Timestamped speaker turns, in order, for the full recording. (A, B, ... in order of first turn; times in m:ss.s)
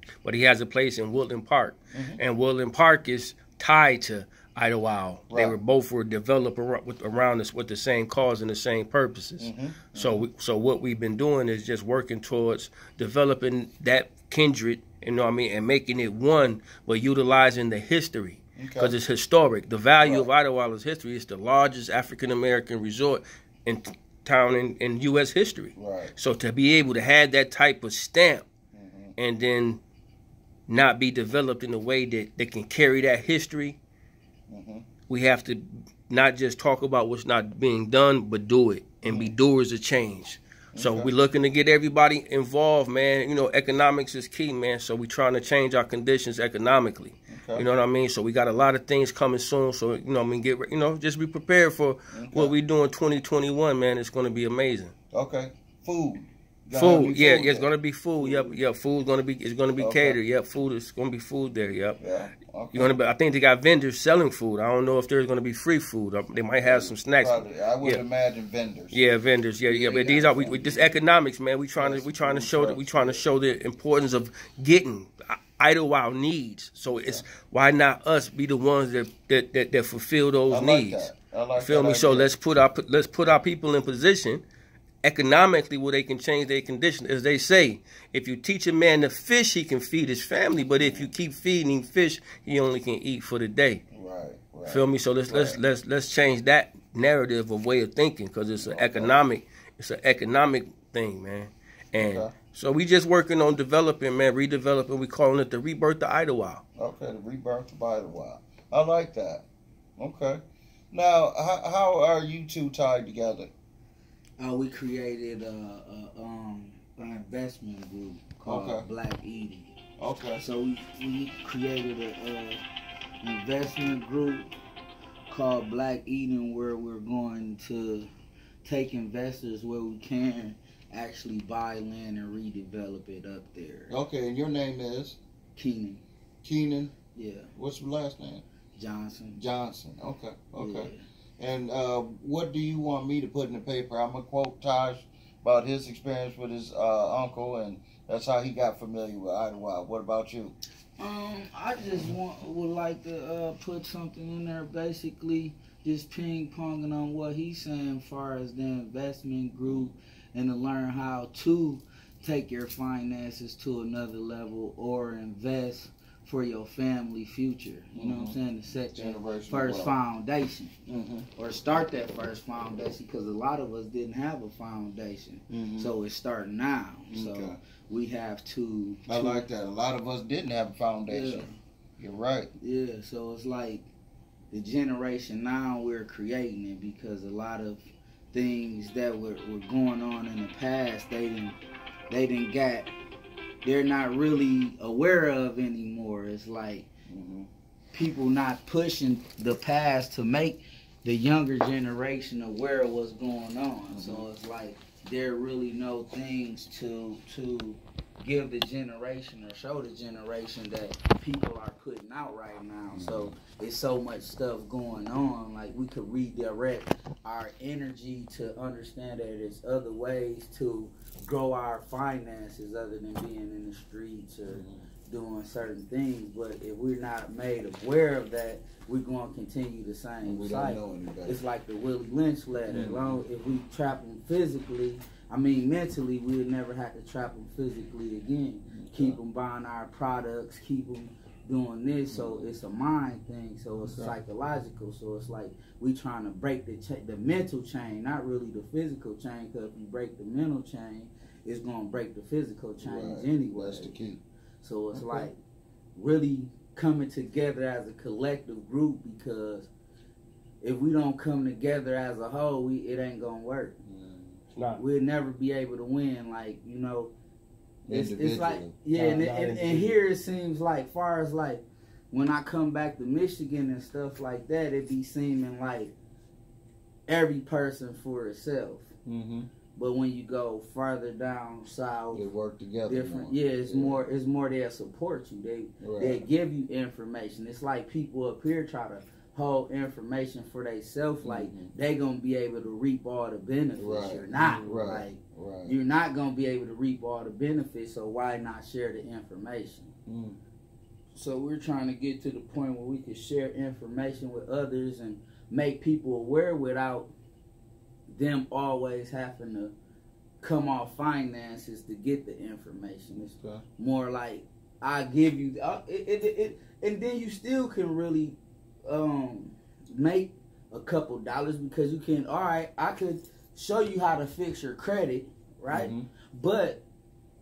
0:00.2-0:28.5 A
0:01.9-0:02.2 B
0:05.3-0:05.6 B
0:09.4-0:10.3 B
0:18.6-0:19.0 B
0:20.0-0:20.3 B
0:25.8-0:26.1 B
0:28.7-0:29.2 B
0:29.2-0:29.8 A
0:30.7-0:33.8 A
0:34.5-0:34.9 B
0:35.1-0:54.9 A
0:39.0-0:39.4 B
0:40.7-0:41.1 B
0:47.3-0:47.7 B
0:52.1-0:52.6 B
0:55.1-0:57.7 B
0:56.7-1:02.0 A
0:58.2-0:58.6 B
0:59.8-1:00.2 B
1:02.0-1:02.9 B
1:02.7-1:08.0 A
1:06.6-1:09.0 B
1:08.9-1:24.4 A
1:09.7-1:10.9 B
1:11.8-1:13.2 B
1:17.0-1:17.2 B
1:20.5-1:22.3 B
1:25.0-1:33.8 A
1:30.8-1:31.1 B
1:33.9-1:35.6 B
1:34.7-1:46.6 A
1:38.6-1:39.2 B
1:42.0-1:42.3 B
1:46.8-1:49.4 B
1:50.0-1:53.5 B
1:54.4-1:59.8 C
1:58.5-1:58.8 B
2:00.0-2:00.4 B
2:00.4-2:02.6 C
2:03.2-2:04.5 C
2:05.3-2:08.1 C
2:08.6-2:14.0 C
2:13.9-2:15.2 B
2:15.6-2:16.0 C
2:16.4-2:16.9 B
2:17.1-2:17.5 C
2:17.6-2:18.4 B
2:18.8-2:19.4 C
2:19.4-2:30.6 B
2:20.6-2:21.0 C
2:31.0-2:50.8 C
2:39.7-2:39.9 B
2:48.0-2:48.4 B
2:49.0-2:50.0 B
2:50.9-2:51.3 B
2:51.4-2:59.5 C
2:55.5-2:55.9 B
2:57.1-2:57.6 B
2:59.1-3:02.5 B
3:01.1-3:01.5 C
3:02.6-3:03.9 C
3:04.5-3:11.6 C
3:12.1-3:12.9 C
3:13.6-3:16.9 C
3:17.1-3:17.5 B
3:17.9-4:14.0 C
3:23.9-3:24.3 B
3:32.9-3:33.3 B
3:44.5-3:44.8 B
3:50.2-3:51.4 B
3:52.7-3:53.2 B
3:58.7-3:59.2 B
4:02.1-4:02.5 B
4:03.8-4:04.2 B
4:12.8-4:14.2 B
4:14.6-4:15.4 C
4:15.0-4:15.3 B
4:16.0-4:19.7 C
4:20.6-4:23.8 C
4:23.9-4:24.4 B
4:24.6-4:24.8 A
4:24.8-4:27.1 C
4:27.9-4:28.7 B
4:27.9-4:35.9 C
4:28.9-4:29.9 A
4:37.1-4:38.9 C
4:39.1-4:39.5 B
4:39.8-4:42.2 C
4:42.1-4:44.0 B
4:42.9-4:59.9 C
4:45.8-4:46.2 B
4:51.2-4:51.7 B
4:53.8-4:55.8 B
4:54.4-4:54.6 A
5:00.1-5:00.4 B
5:01.2-5:07.1 C
5:08.1-5:09.7 C
5:10.4-5:26.8 C
5:13.3-5:13.6 B
5:25.7-5:26.1 B